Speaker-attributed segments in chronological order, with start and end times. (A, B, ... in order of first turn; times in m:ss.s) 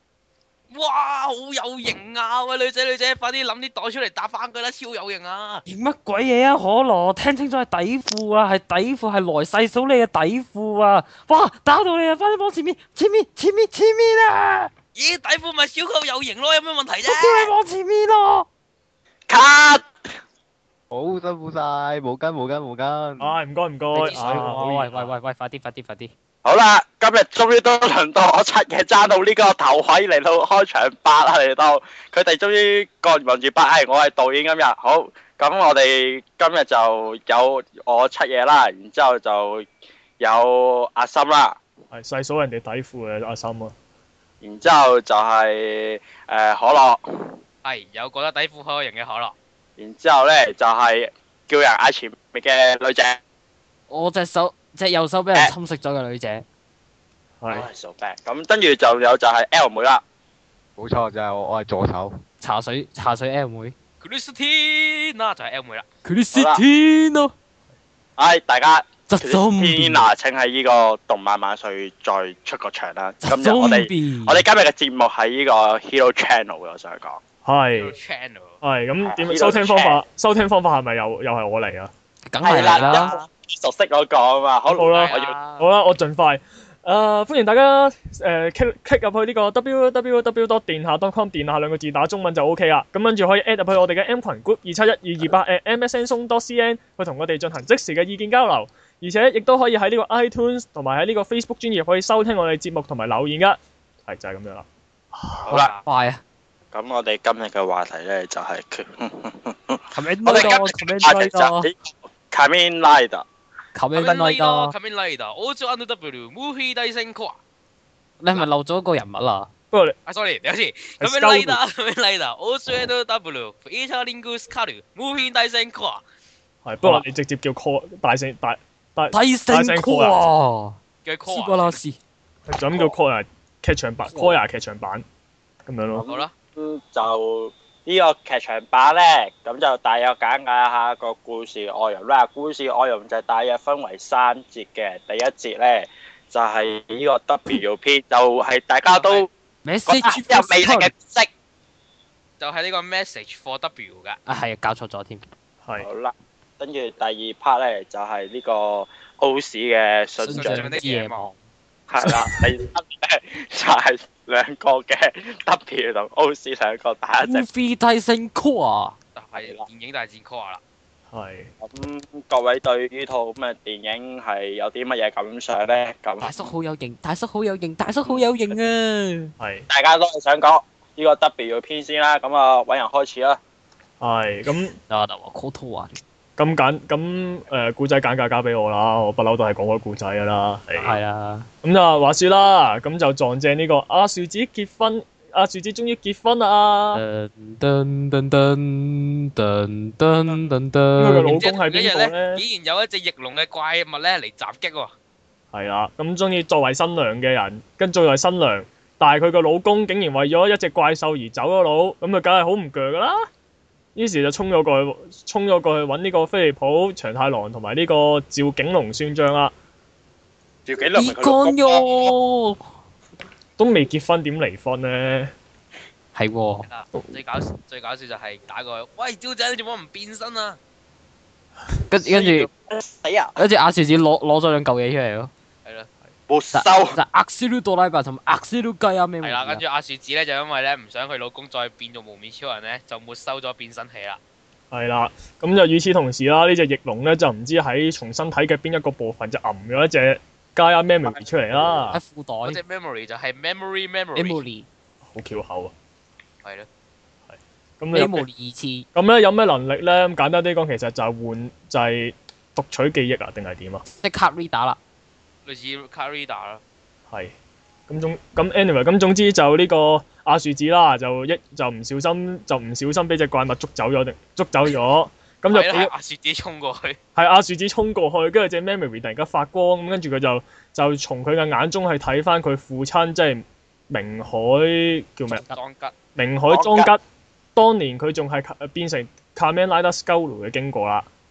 0:00.7-0:05.6 A
0:05.7-0:14.7 B
0:14.9-0:17.5 A
0:17.0-0:18.4 B
0:19.3-0:19.9 C
0:20.9-0:23.3 D
0:23.2-0:24.9 E
0:23.9-0:26.1 B
0:24.0-0:25.1 A
0:26.4-0:39.7 C
0:40.2-0:41.6 C
0:41.9-0:43.7 E
0:44.4-0:47.3 C
0:47.6-0:49.3 A
0:49.8-0:53.2 C
0:53.9-0:56.4 B
0:57.4-0:57.7 E
0:57.5-1:00.0 C
1:00.8-1:02.1 D
1:02.4-1:03.7 B
1:04.0-1:05.8 A
1:06.0-1:07.3 B
1:06.3-1:06.6 C
1:08.2-1:17.2 C
1:09.1-1:10.1 B
1:13.2-1:14.4 B
1:17.4-1:18.0 E
1:17.7-1:18.6 A
1:18.6-1:21.9 E
1:19.0-1:20.0 C
1:22.3-1:23.2 B
1:22.4-1:25.3 C
1:22.5-1:23.1 A
1:24.7-1:45.6 E
1:24.9-1:25.6 A
1:45.4-1:45.8 C
1:45.5-1:46.2 B
1:45.5-1:45.8 A
1:46.7-1:53.2 C
1:49.9-1:51.7 B
1:53.7-1:54.7 B
1:53.9-1:57.4 A
1:58.2-1:59.5 B
2:00.1-2:06.0 A
2:01.0-2:01.6 E
2:06.6-2:10.2 E
2:09.1-2:12.0 B
2:11.0-2:11.8 A
2:12.5-2:15.0 E
2:14.0-2:14.4 B
2:15.6-2:16.1 E
2:15.9-2:29.3 C
2:28.9-2:29.3 A
2:29.6-2:30.9 B
2:29.9-2:31.3 C
2:32.4-2:34.2 A
2:34.2-2:35.2 B
2:35.8-2:40.7 C
2:40.2-2:41.2 A
2:40.3-2:41.4 B
2:41.9-2:47.4 C
2:42.0-2:42.3 E
2:47.2-2:49.0 B
2:49.2-2:50.6 A
2:49.4-2:49.6 C
2:51.1-2:51.5 E
2:51.6-2:56.5 C
2:56.2-2:59.3 B
2:59.4-2:59.7 E
2:59.7-3:03.4 C
3:04.0-3:04.8 E
3:04.9-3:06.0 B
3:06.4-3:11.0 E
3:10.7-3:11.5 B
3:11.6-3:17.0 E
3:16.9-3:21.4 B
3:21.0-3:22.4 E
3:21.3-3:24.9 A
3:25.5-3:33.2 E
3:33.9-3:39.5 E
3:40.6-3:42.1 C
3:40.9-3:42.6 B
3:43.6-3:45.3 E
3:46.1-3:46.7 B
3:46.7-3:50.6 A
3:51.9-3:52.5 B
3:52.0-3:53.4 C
3:53.4-3:55.3 B
3:56.3-3:57.0 C
3:56.5-3:59.6 B
3:59.2-4:04.2 A
4:04.7-4:12.0 E
4:11.9-4:12.6 B
4:12.4-4:14.4 A
4:14.2-4:14.7 B
4:15.0-4:15.7 E
4:17.3-4:18.3 E
4:17.9-4:18.8 B
4:18.9-4:23.8 E
4:24.0-4:24.8 B
4:25.4-4:26.6 A
4:27.9-4:35.9 E
4:35.5-4:37.0 A
4:37.2-4:45.4 E
4:45.3-4:45.9 A
4:46.2-4:47.0 E
4:46.5-4:46.9 C
4:47.6-4:51.0 E